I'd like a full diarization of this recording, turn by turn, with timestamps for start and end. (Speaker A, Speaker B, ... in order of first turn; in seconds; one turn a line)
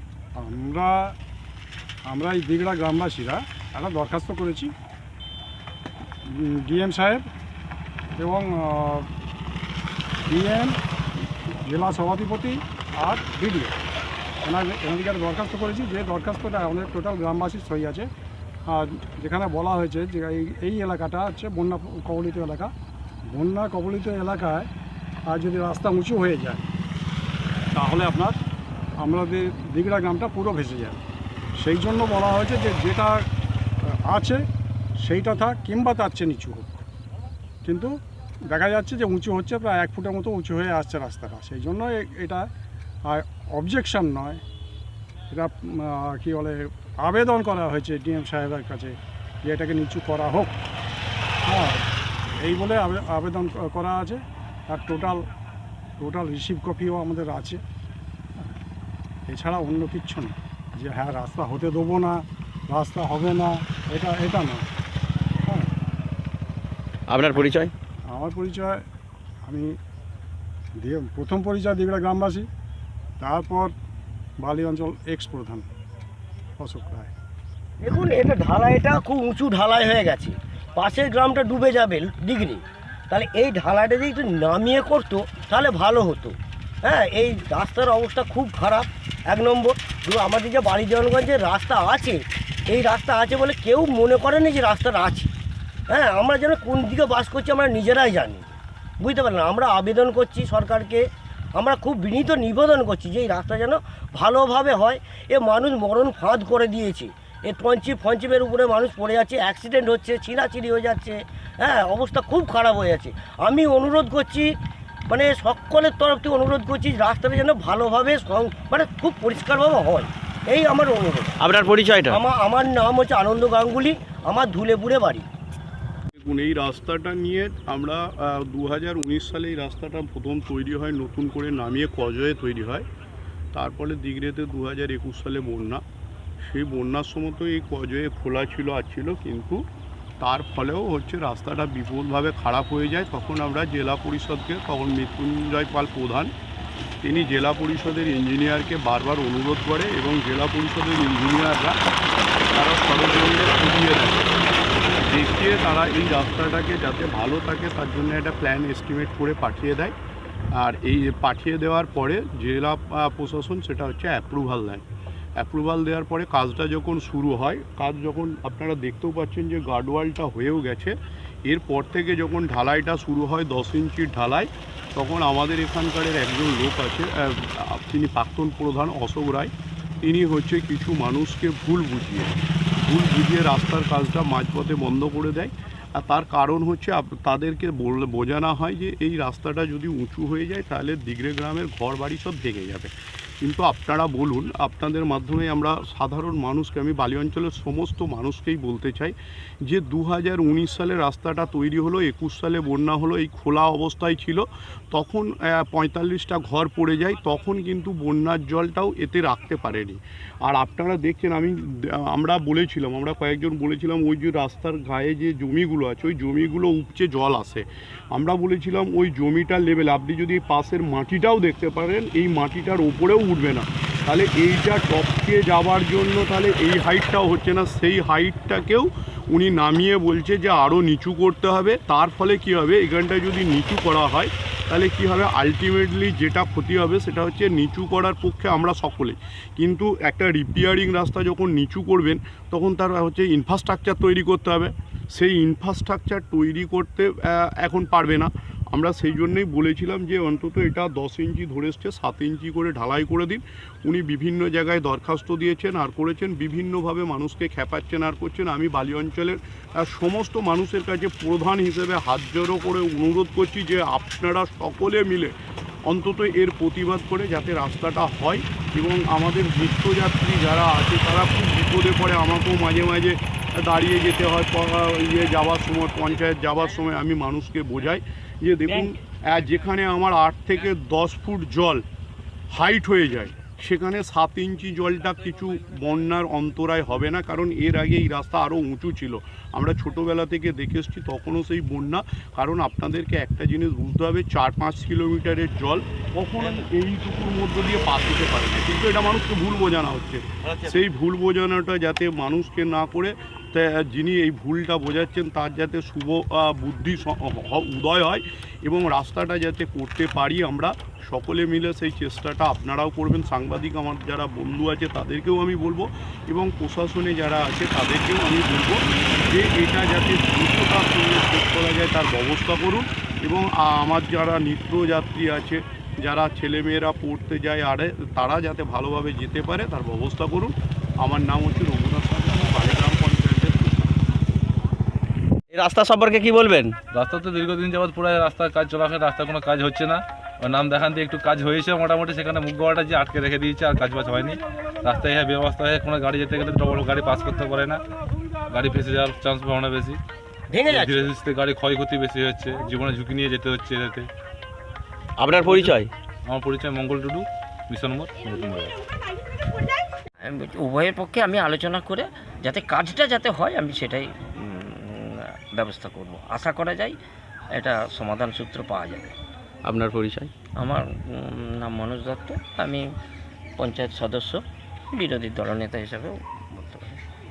Speaker A: 0.4-1.1
Speaker A: 2.1-4.7
Speaker A: 6.3-7.2
Speaker A: 8.2-9.1
Speaker A: 10.3-10.8
Speaker A: 11.6-13.8
Speaker A: 14.4-18.1
Speaker A: 18.7-22.7
Speaker A: 23.3-24.7
Speaker A: 25.3-26.6
Speaker A: 27.7-28.4
Speaker A: 29.0-31.0
Speaker A: 31.6-33.2
Speaker A: 33.9-34.4
Speaker A: 35.0-36.8
Speaker A: 37.6-38.0
Speaker A: 38.5-42.5
Speaker A: 43.1-44.4
Speaker A: 45.3-50.5
Speaker A: 51.5-51.8
Speaker A: 52.4-55.3
Speaker A: 56.0-57.6
Speaker A: 59.3-64.6
Speaker B: 67.1-67.7
Speaker A: 68.1-68.8
Speaker A: 69.5-69.8
Speaker A: 70.8-72.5
Speaker A: 73.2-73.7
Speaker A: 74.4-75.7
Speaker A: 76.6-77.1
Speaker C: 77.8-95.3
Speaker C: 95.9-101.0
Speaker C: 101.5-114.5
Speaker C: 115.1-121.3
Speaker B: 121.4-122.2
Speaker C: 122.0-125.3
Speaker D: 126.1-132.9
Speaker D: 133.5-135.8
Speaker D: 136.4-139.7
Speaker D: 140.2-146.3
Speaker D: 147.0-151.8
Speaker D: 152.5-154.4
Speaker D: 155.0-159.9
Speaker D: 160.6-164.9
Speaker D: 165.4-170.9
Speaker D: 171.5-265.3
Speaker D: 265.9-281.8
Speaker D: 282.5-333.9
Speaker B: 335.5-336.7
Speaker E: 336.9-347.8
Speaker E: 348.5-350.0
Speaker C: 350.5-351.1
Speaker E: 350.7-354.1
Speaker B: 355.2-355.9
Speaker E: 355.4-355.7
Speaker E: 356.3-358.8
Speaker F: 360.2-366.9
Speaker F: 367.5-369.1
Speaker B: 369.6-370.3
Speaker F: 370.6-372.9
Speaker F: 373.6-377.0